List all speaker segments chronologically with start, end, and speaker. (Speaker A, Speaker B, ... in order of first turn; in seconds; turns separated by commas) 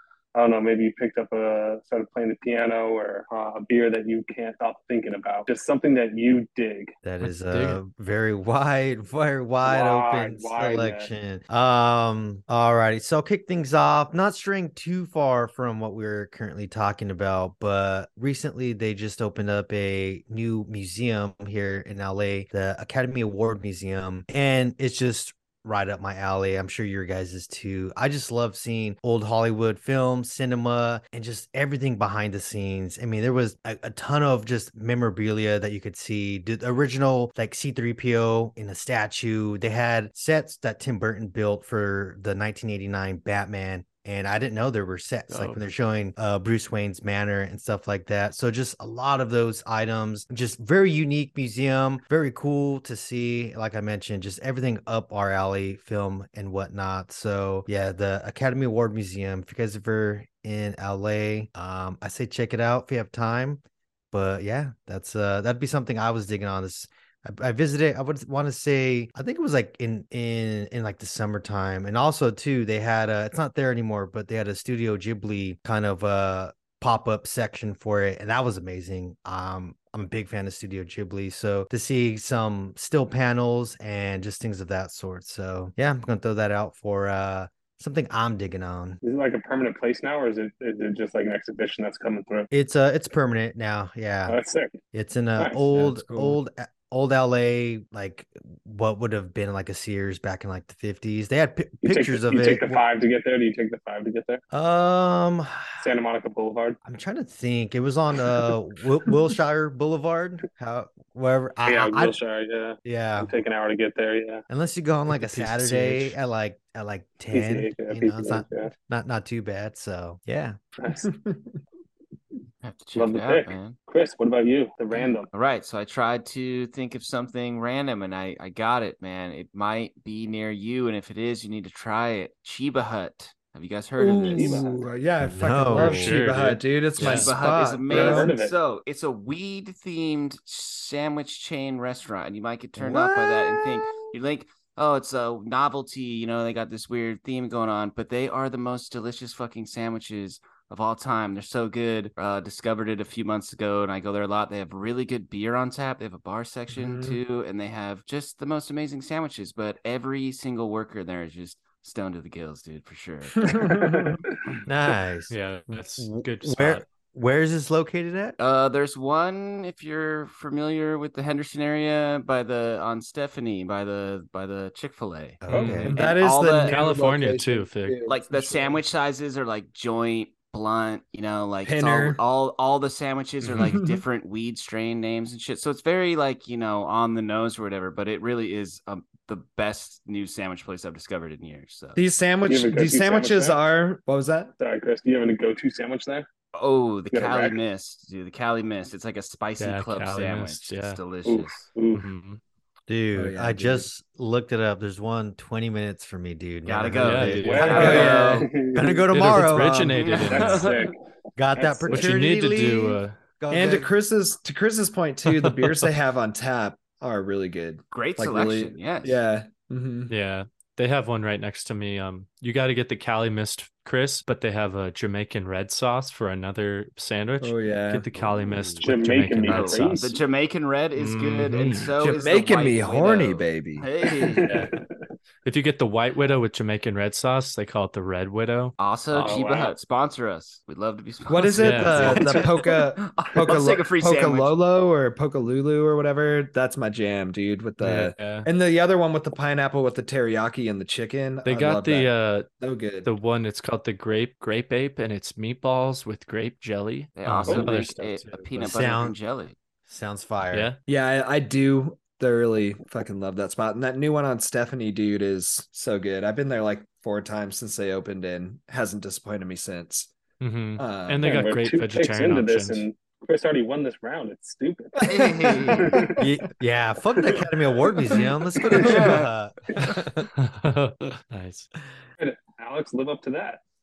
Speaker A: 0.3-6.9, Speaker B: 7.0-63.6, Speaker C: 7.2-7.8, Speaker A: 9.6-11.1, Speaker C: 45.3-45.6, Speaker B: 64.1-89.0, Speaker A: 89.0-92.5, Speaker B: 92.5-94.4, Speaker A: 94.3-94.8, Speaker B: 94.9-102.8, Speaker D: 95.7-96.4, Speaker A: 101.8-104.4, Speaker B: 104.5-105.9, Speaker A: 105.8-106.8, Speaker B: 106.8-112.2, Speaker A: 111.6-114.4, Speaker B: 112.8-113.3, Speaker B: 114.5-120.6, Speaker C: 115.1-116.2, Speaker A: 117.3-118.7, Speaker A: 120.8-121.1, Speaker D: 121.0-121.4, Speaker E: 122.6-123.8, Speaker A: 123.0-125.3, Speaker E: 125.3-134.7, Speaker D: 134.0-138.3, Speaker A: 134.2-134.8, Speaker B: 135.2-136.1, Speaker C: 135.7-137.3, Speaker E: 137.0-163.8, Speaker A: 137.9-138.6, Speaker D: 142.8-143.7, Speaker D: 156.7-157.2, Speaker D: 163.3-164.2, Speaker A: 163.7-164.1, Speaker B: 164.7-168.3, Speaker C: 165.3-166.8, Speaker E: 168.4-176.8, Speaker B: 175.4-175.9, Speaker C: 175.5-176.0, Speaker D: 175.5-178.8, Speaker C: 176.7-178.0, Speaker E: 178.1-192.0, Speaker D: 181.6-182.2, Speaker C: 183.4-183.7, Speaker D: 183.6-184.0, Speaker D: 191.9-194.5, Speaker A: 192.4-193.6, Speaker A: 194.6-196.2, Speaker E: 196.5-201.6, Speaker A: 197.1-197.6, Speaker C: 199.6-201.0, Speaker A: 201.2-202.0, Speaker C: 201.9-202.4, Speaker B: 202.9-209.9, Speaker D: 203.1-203.9, Speaker E: 206.7-208.5, Speaker C: 207.0-208.0, Speaker A: 207.4-209.1, Speaker D: 207.7-208.5, Speaker C: 209.1-210.7, Speaker D: 209.2-210.1, Speaker E: 209.9-210.9, Speaker A: 210.1-210.9, Speaker B: 211.3-213.9, Speaker A: 211.6-212.1, Speaker C: 211.9-213.2, Speaker D: 213.5-220.1, Speaker C: 215.3-215.9, Speaker E: 217.9-219.2, Speaker C: 220.1-230.0, Speaker D: 227.4-228.1, Speaker A: 228.8-230.1, Speaker E: 229.4-234.5, Speaker C: 231.0-231.9, Speaker D: 232.0-233.9, Speaker A: 234.3-234.9, Speaker C: 234.4-234.7, Speaker C: 235.4-238.7, Speaker E: 238.8-244.5, Speaker A: 239.1-239.7, Speaker D: 241.3-253.1, Speaker C: 241.6-242.4, Speaker C: 247.8-248.4, Speaker C: 251.4-252.5, Speaker C: 253.1-258.6, Speaker E: 257.1-259.6, Speaker B: 258.6-259.2, Speaker B: 259.9-260.7, Speaker C: 260.5-260.8, Speaker D: 260.9-270.1, Speaker C: 270.4-272.8, Speaker D: 270.8-271.2, Speaker A: 271.2-276.2, Speaker D: 275.0-276.0, Speaker E: 275.0-276.1, Speaker B: 276.2-280.3, Speaker A: 278.7-279.1, Speaker E: 278.8-279.3, Speaker D: 278.8-279.2, Speaker C: 280.3-281.7, Speaker A: 282.2-283.6